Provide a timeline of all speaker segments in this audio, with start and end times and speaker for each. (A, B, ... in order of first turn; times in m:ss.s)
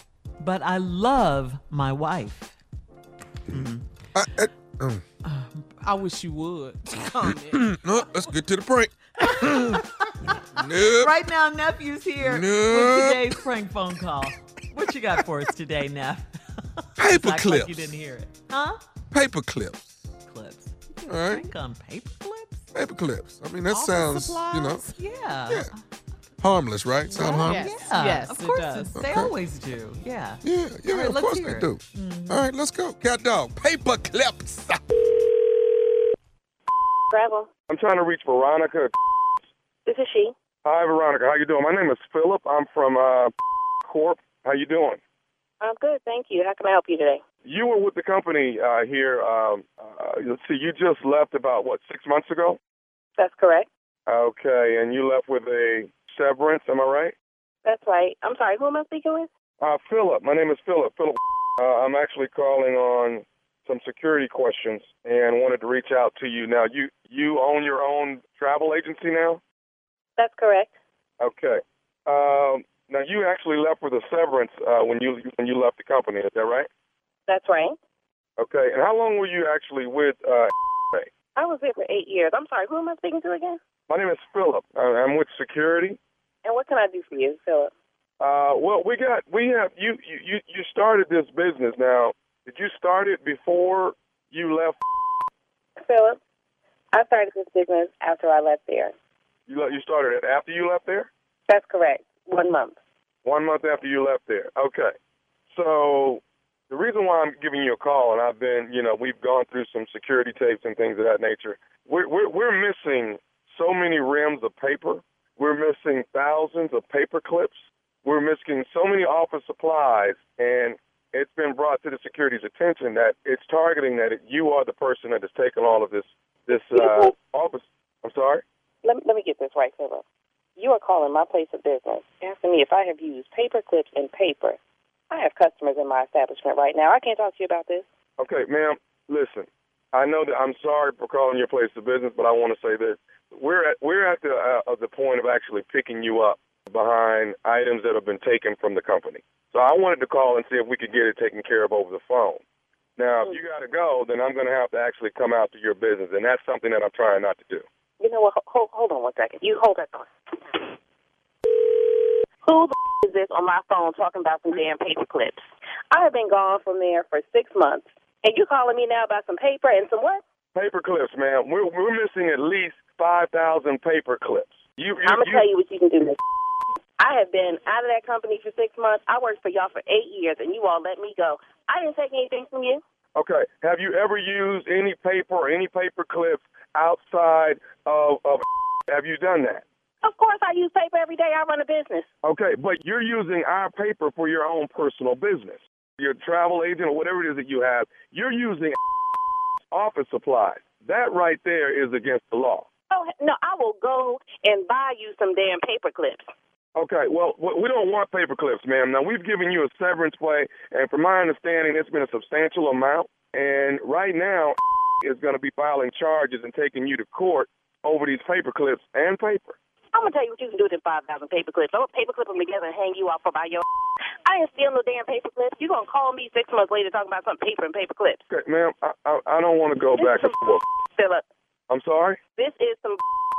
0:00.4-0:02.5 A
0:03.5-0:03.8 A
0:03.5-0:05.0 B
0:05.2-0:05.7 A
0:05.8-0:07.6 C
0:07.2-0:09.8 B
0:09.2-0:18.8 A
0:10.5-0:11.1 B
0:12.2-0:13.4 B
0:17.0-0:18.0 B
0:19.1-0:19.9 B
0:20.2-0:22.7 A
0:21.1-0:21.4 B
0:22.7-0:24.8 B
0:23.7-0:25.0 C
0:25.0-0:25.8 A
0:26.4-0:27.7 B
0:27.1-0:32.5 A
0:27.3-0:29.0 C
0:28.9-0:29.3 B
0:30.4-0:35.0 B
0:37.1-0:37.5 D
0:37.7-0:38.9 E
0:39.8-0:40.3 D
0:40.6-0:43.3 E
0:43.8-0:45.0 E
0:45.6-0:47.2 D
0:47.4-0:52.6 E
0:53.2-0:53.7 D
0:54.1-0:57.1 E
0:57.6-0:59.3 D
0:59.6-1:09.4 E
1:10.2-1:10.7 D
1:11.2-1:16.7 E
1:17.3-1:17.8 D
1:18.4-1:21.1 E
1:21.4-1:23.6 D
1:23.9-1:26.0 E
1:26.4-1:27.7 D
1:28.2-1:34.8 E
1:35.8-1:36.2 D
1:36.9-1:38.9 D
1:39.5-1:41.1 E
1:41.5-1:42.8 D
1:43.2-1:44.9 E
1:45.5-2:08.4 E
2:06.7-2:07.1 D
2:08.8-2:10.0 D
2:10.6-2:14.6 D
2:15.1-2:17.8 D
2:18.2-2:32.4 E
2:33.0-2:37.6 E
2:38.0-2:40.7 D
2:41.7-2:50.2 D
2:50.5-2:55.4 E
2:55.0-2:56.2 D
2:57.0-3:02.8 D
3:03.1-3:09.6 E
3:10.0-3:12.1 D
3:12.2-3:18.8 E
3:19.7-3:22.6 E
3:22.9-3:26.3 D
3:26.7-3:39.5 E
3:39.9-3:43.6 D
3:44.2-3:48.2 D
3:48.3-3:50.6 E
3:49.9-3:51.2 D
3:51.7-3:52.2 E
3:52.4-3:53.0 D